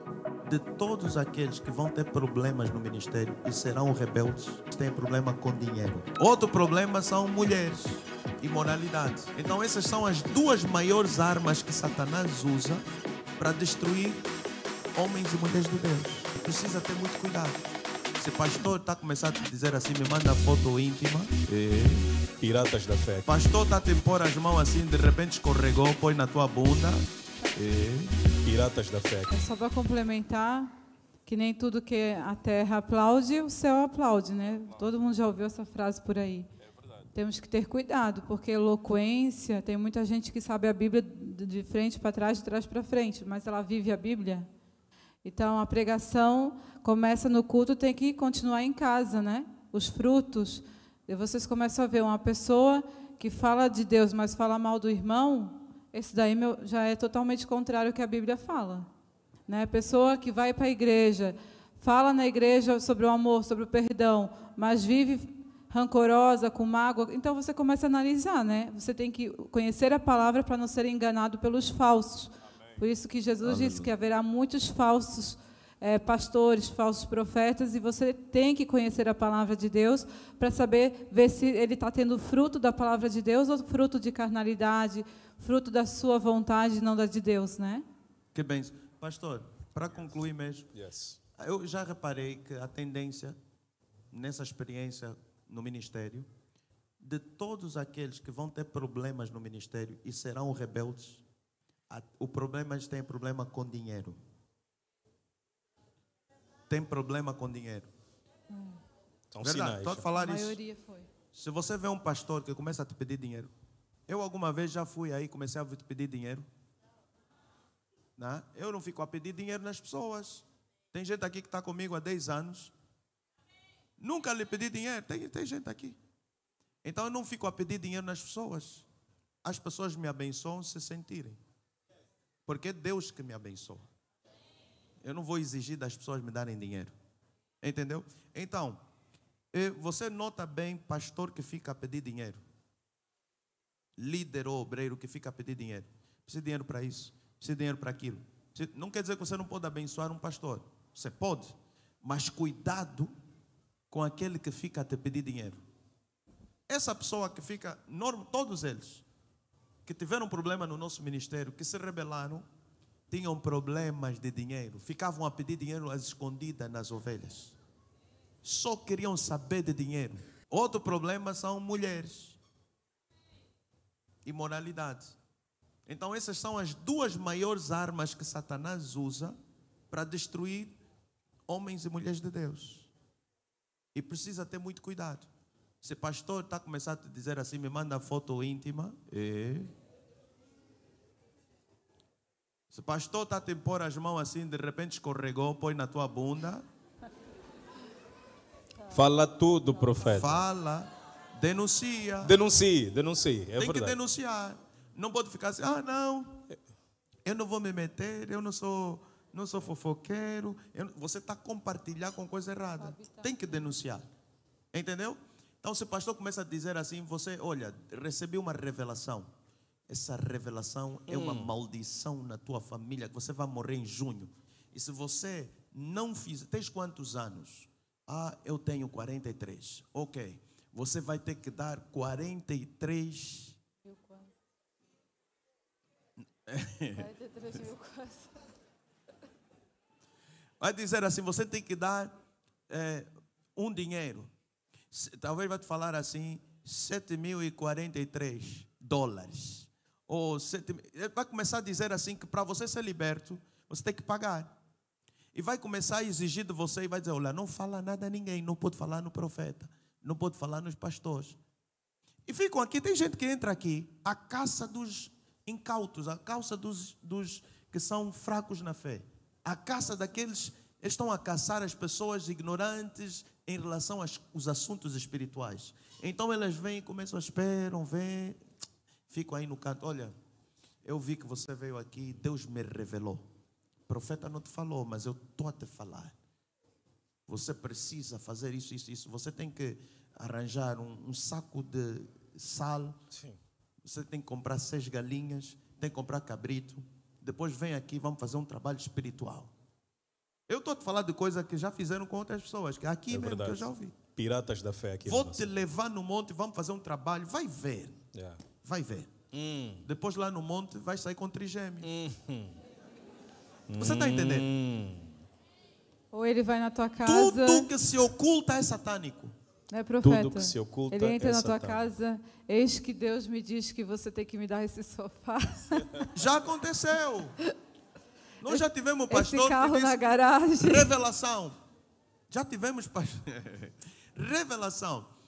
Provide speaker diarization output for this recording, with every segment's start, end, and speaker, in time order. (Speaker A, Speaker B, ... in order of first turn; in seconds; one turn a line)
Speaker A: 0.4-12.8
Speaker A: 13.4-14.2
Speaker A: 14.9-17.6
Speaker A: 18.2-22.0
Speaker B: 22.4-23.3
Speaker A: 23.3-28.1
Speaker B: 28.4-29.3
Speaker C: 29.3-30.7
Speaker C: 31.2-36.5
Speaker C: 37.1-44.5
Speaker C: 45.2-58.9
Speaker C: 59.5-87.8
Speaker A: 73.4-73.9
Speaker A: 88.3-90.7
Speaker B: 90.7-91.2
Speaker A: 91.4-93.3
Speaker A: 94.1-96.3
Speaker A: 97.0-101.2
Speaker A: 101.9-104.2
Speaker A: 106.7-107.9
Speaker C: 108.5-108.8
Speaker B: 109.3-110.1
Speaker A: 109.4-110.6
Speaker C: 110.2-111.1
Speaker A: 111.3-113.5
Speaker A: 114.1-116.5
Speaker A: 118.2-122.7
Speaker A: 124.0-126.0
Speaker A: 126.8-128.9
Speaker A: 129.4-131.4
Speaker A: 132.4-133.8
Speaker A: 135.0-136.9
Speaker A: 137.6-138.8
Speaker A: 139.5-142.4
Speaker A: 144.0-153.1
Speaker A: 153.9-155.6
Speaker A: 156.7-159.0
Speaker A: 159.8-162.4
Speaker A: 163.1-167.6
Speaker A: 168.4-172.4
Speaker A: 174.2-175.2
Speaker A: 175.8-179.3
Speaker A: 179.9-180.8
Speaker A: 181.5-182.9
Speaker A: 183.9-185.3
Speaker A: 185.8-189.7
Speaker A: 192.7-196.6
Speaker B: 198.9-200.4
Speaker A: 200.1-202.3
Speaker B: 202.2-204.0
Speaker A: 203.6-206.4
Speaker A: 207.2-214.1
Speaker C: 212.8-213.2
Speaker A: 214.7-219.3
Speaker A: 219.9-233.6
Speaker B: 221.1-221.5
Speaker C: 233.9-234.3
Speaker A: 236.4-237.1
Speaker C: 237.0-238.4
Speaker A: 240.6-242.1
Speaker A: 242.7-244.3
Speaker A: 244.9-254.6
Speaker A: 255.3-261.4
Speaker A: 262.3-278.4
Speaker A: 279.1-280.1
Speaker A: 280.8-283.2
Speaker A: 283.9-286.1
Speaker A: 287.3-293.0
Speaker A: 293.8-299.5
Speaker A: 300.5-303.9
Speaker B: 303.1-305.6
Speaker A: 305.0-308.0
Speaker B: 308.1-308.4
Speaker A: 308.6-309.1
Speaker B: 309.3-309.8
Speaker A: 309.8-311.9
Speaker B: 311.8-312.6
Speaker B: 313.7-315.1
Speaker A: 313.7-314.5
Speaker C: 316.1-317.7
Speaker A: 317.0-319.3
Speaker C: 319.7-325.8
Speaker B: 320.0-321.9
Speaker A: 326.1-327.4
Speaker A: 328.4-331.6
Speaker C: 328.5-330.9
Speaker A: 332.3-335.1